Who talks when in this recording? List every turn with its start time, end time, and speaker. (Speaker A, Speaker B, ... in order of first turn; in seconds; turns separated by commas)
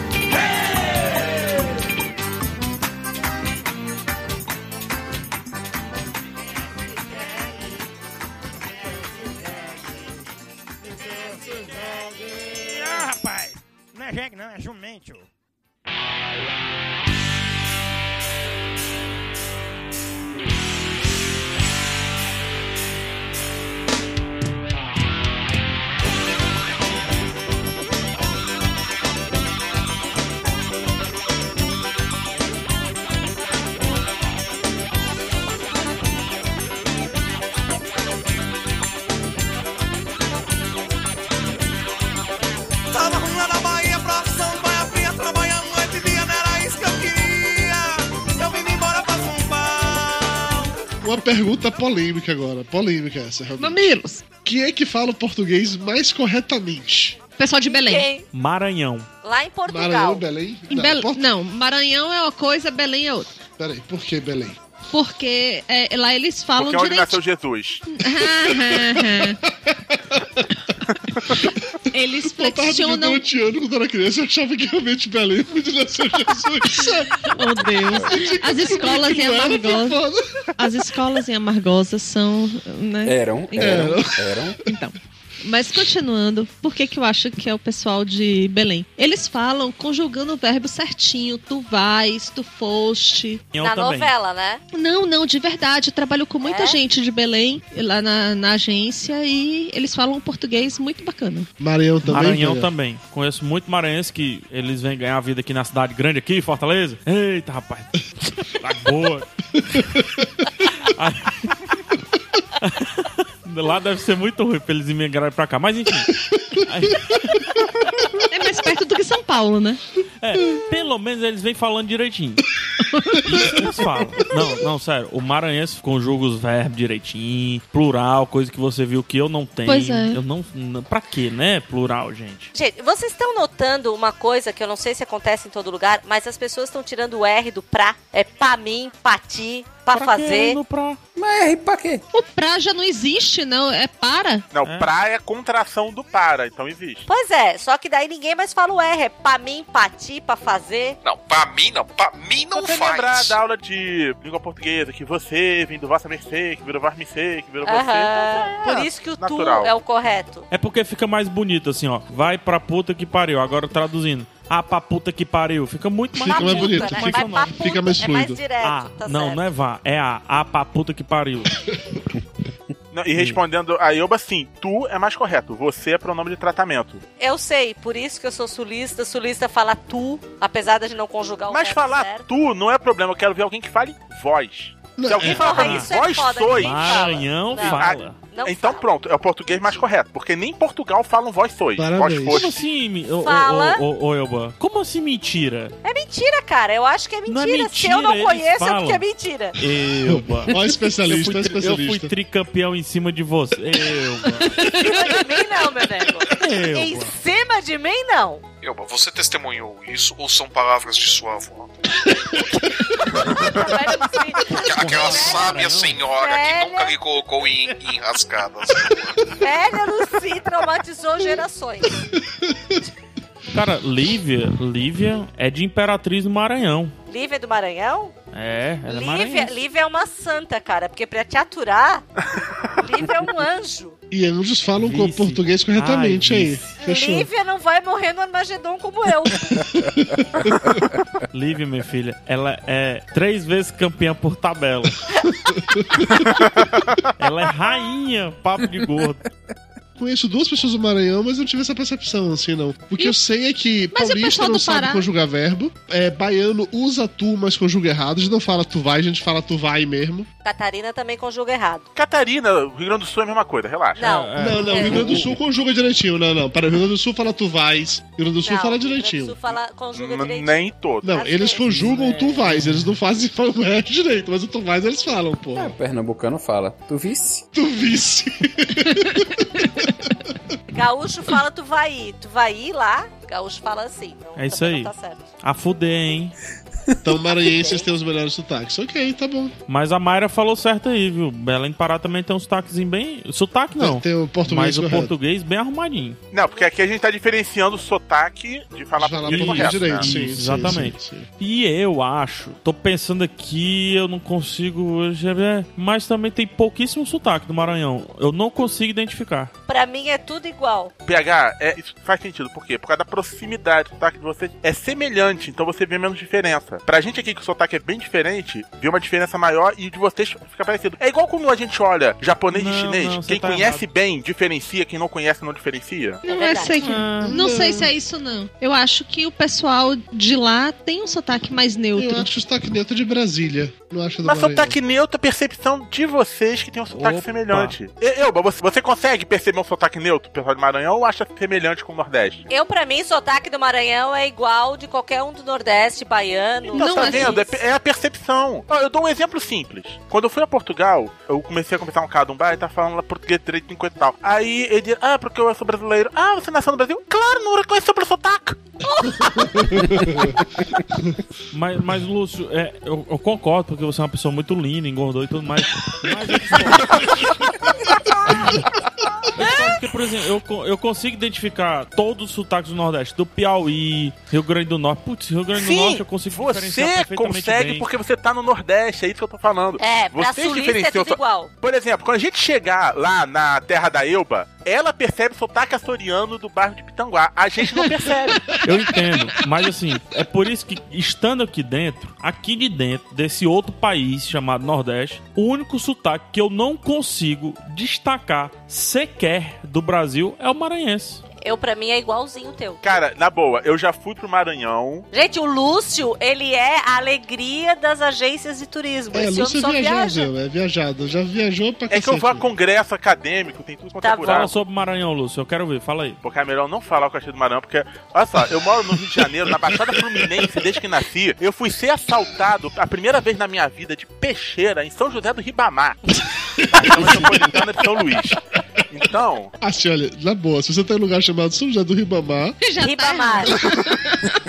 Speaker A: 11.1-15.3, Speaker B: 42.9-50.7, Speaker C: 51.0-53.9, Speaker D: 53.6-54.2, Speaker C: 54.5-57.2, Speaker D: 57.4-58.1, Speaker E: 57.6-58.3, Speaker F: 58.3-59.1, Speaker E: 59.2-60.2, Speaker C: 59.7-61.3, Speaker D: 60.7-63.3, Speaker C: 63.6-64.6, Speaker D: 64.9-67.2, Speaker G: 66.6-67.8, Speaker D: 67.9-69.4, Speaker C: 68.5-70.5, Speaker D: 71.9-73.2, Speaker C: 72.2-77.3, Speaker D: 77.3-80.0, Speaker C: 78.0-80.2, Speaker D: 80.6-83.9, Speaker H: 83.0-84.6, Speaker C: 83.6-84.5, Speaker D: 84.6-93.4, Speaker F: 93.5-94.1, Speaker E: 93.6-94.6, Speaker D: 94.7-101.5, Speaker E: 96.4-96.8, Speaker C: 101.6-102.7, Speaker F: 102.0-109.8, Speaker F: 110.8-111.8, Speaker F: 112.6-117.4, Speaker C: 116.3-116.6, Speaker D: 118.3-119.8, Speaker F: 120.2-122.5, Speaker D: 122.9-123.2, Speaker F: 123.2-132.5, Speaker D: 129.7-130.2, Speaker E: 132.5-140.6, Speaker F: 139.9-141.0, Speaker H: 141.2-142.0, Speaker D: 142.1-144.4, Speaker G: 144.5-147.1, Speaker F: 144.6-144.9, Speaker E: 147.1-151.0, Speaker I: 151.0-153.4, Speaker G: 152.6-159.7, Speaker E: 157.6-160.4, Speaker F: 160.5-167.7, Speaker C: 166.1-168.4, Speaker E: 166.2-169.4, Speaker F: 168.6-171.6, Speaker G: 172.9-177.0, Speaker E: 177.2-182.3, Speaker G: 181.5-192.6, Speaker C: 184.9-185.6, Speaker F: 185.2-188.2, Speaker E: 185.3-188.9, Speaker E: 189.5-189.8, Speaker C: 191.8-192.5, Speaker F: 192.3-195.7, Speaker E: 193.2-193.8, Speaker E: 195.8-199.6, Speaker F: 197.3-200.5, Speaker C: 200.1-202.1, Speaker F: 201.1-204.8, Speaker D: 204.6-204.9, Speaker E: 204.8-208.4, Speaker F: 206.4-207.1, Speaker I: 208.6-211.7, Speaker E: 213.2-217.0, Speaker F: 214.5-216.0, Speaker I: 214.6-219.4, Speaker E: 219.4-222.0, Speaker C: 222.3-222.8, Speaker F: 223.5-226.9, Speaker E: 227.1-228.1, Speaker F: 228.3-229.6, Speaker E: 228.9-232.0, Speaker E: 232.8-233.9, Speaker C: 234.1-237.3, Speaker F: 234.8-236.8, Speaker E: 236.8-239.7, Speaker C: 240.0-240.8, Speaker F: 241.3-245.0, Speaker C: 245.5-246.4, Speaker F: 247.2-249.2, Speaker C: 250.0-260.3, Speaker D: 253.9-255.1, Speaker E: 260.4-261.9, Speaker G: 261.9-264.1, Speaker E: 263.9-265.2, Speaker F: 264.0-265.3, Speaker C: 264.4-269.4, Speaker E: 268.4-271.7, Speaker G: 269.9-271.2, Speaker C: 271.0-275.8, Speaker F: 271.7-272.9, Speaker H: 275.6-277.4, Speaker C: 277.5-279.7, Speaker E: 280.7-285.3, Speaker F: 284.4-286.4, Speaker C: 287.0-289.5, Speaker E: 287.3-287.9, Speaker F: 289.7-296.2, Speaker C: 293.8-295.1, Speaker G: 296.3-300.1, Speaker C: 299.0-301.3, Speaker I: 299.4-300.0, Speaker F: 300.0-309.5, Speaker E: 309.7-310.9, Speaker G: 311.1-326.2, Speaker F: 322.5-323.9, Speaker E: 326.2-327.0, Speaker D: 326.3-332.3, Speaker F: 326.8-327.3, Speaker C: 327.2-327.9, Speaker C: 331.9-334.8, Speaker G: 334.2-342.4, Speaker F: 336.9-337.8, Speaker E: 342.5-347.6, Speaker G: 346.7-358.6, Speaker D: 346.7-347.4, Speaker C: 359.0-360.4, Speaker F: 361.5-367.5, Speaker F: 368.3-368.6, Speaker F: 369.3-377.9, Speaker G: 375.5-388.5, Speaker E: 379.8-381.5, Speaker F: 388.6-401.2, Speaker E: 401.3-402.8, Speaker G: 402.8-405.1, Speaker E: 405.1-410.3, Speaker C: 409.1-412.5, Speaker G: 411.9-414.6, Speaker E: 414.0-414.5, Speaker F: 414.2-416.2, Speaker G: 416.2-426.0, Speaker C: 426.6-427.6, Speaker G: 426.7-429.5, Speaker C: 429.6-432.6, Speaker D: 432.6-434.1, Speaker E: 432.8-433.6